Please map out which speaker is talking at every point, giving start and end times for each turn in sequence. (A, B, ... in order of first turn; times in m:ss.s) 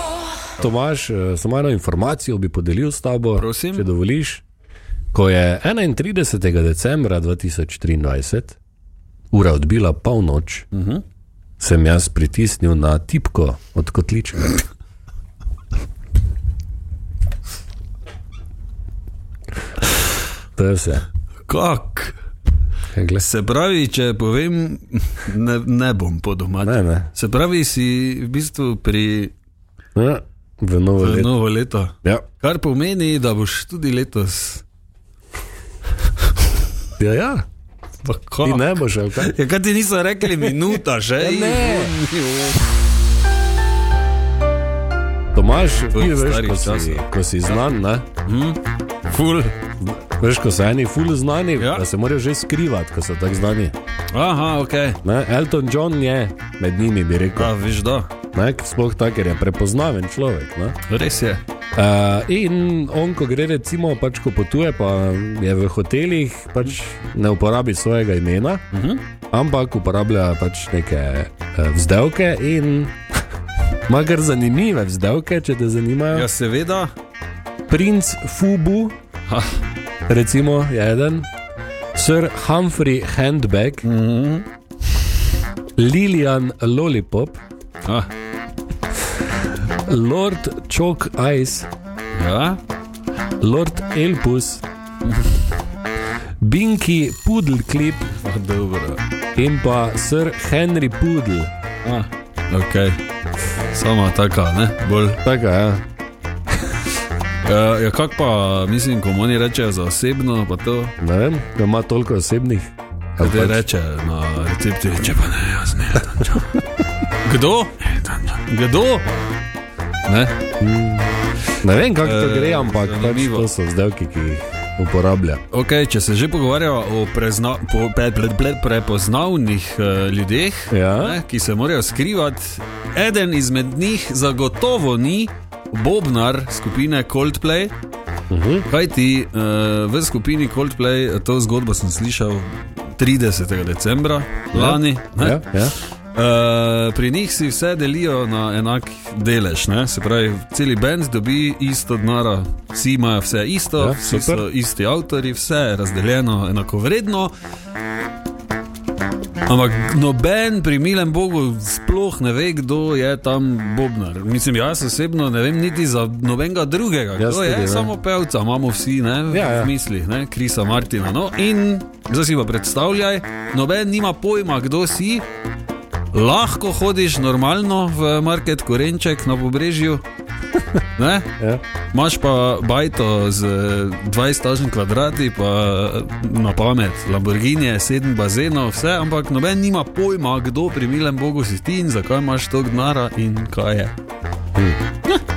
0:00.6-0:04.4 A
0:03.4-0:03.9 B
0:05.1-0:08.6 A
0:09.3-0:10.7 A
0:10.7-0:11.0 B
0:11.6-0:14.6 A
0:20.6-0:21.0 A
0:21.5-0:22.2 B
0:22.9-0:23.2 A
0:23.2-0:29.3 B
0:26.6-0:27.1 A
0:30.0-0:31.3 A
0:31.0-0:34.6 B
0:37.0-0:37.4 A
0:38.0-0:42.6 B
0:38.4-0:39.3 A
0:41.2-0:42.0 A
0:45.3-0:48.1 A
0:45.9-0:47.7 B
0:48.2-0:49.6 B
0:50.0-0:53.8 A
0:51.6-0:51.8 B
0:54.1-0:55.0 B
0:55.0-0:57.6 A
0:57.4-0:58.1 B
0:58.3-1:00.8 A
1:00.9-1:01.4 B
1:01.8-1:08.6 A
1:08.7-1:09.0 B
1:09.3-1:13.0 A
1:13.9-1:16.3 A
1:16.1-1:16.9 B
1:17.7-1:18.9 A
1:19.3-1:19.6 B
1:20.1-1:21.3 A
1:22.0-1:23.9 A
1:23.8-1:24.5 B
1:25.8-1:27.4 A
1:27.8-1:28.1 B
1:29.6-1:31.7 A
1:32.2-1:32.6 B
1:33.4-1:34.6 A
1:36.4-1:38.1 A
1:38.1-1:39.0 B
1:39.4-1:41.5 A
1:41.8-1:43.0 B
1:43.7-1:45.2 B
1:45.2-1:45.8 A
1:47.4-1:51.0 B
1:51.0-1:53.7 A
1:53.2-1:59.1 B
2:00.1-2:00.5 B
2:00.6-2:01.1 A
2:01.6-2:05.4 A
2:02.0-2:03.5 B
2:05.5-2:17.7 B
2:10.7-2:11.2 A
2:18.3-2:18.7 A
2:18.7-2:37.3 B
2:24.5-2:25.8 A
2:33.8-2:34.5 A
2:39.5-2:55.3 B
2:47.2-2:47.9 A
2:49.3-2:49.7 A
2:56.1-3:00.0 B
3:01.0-3:01.3 B
3:01.9-3:14.0 B
3:14.6-3:14.8 A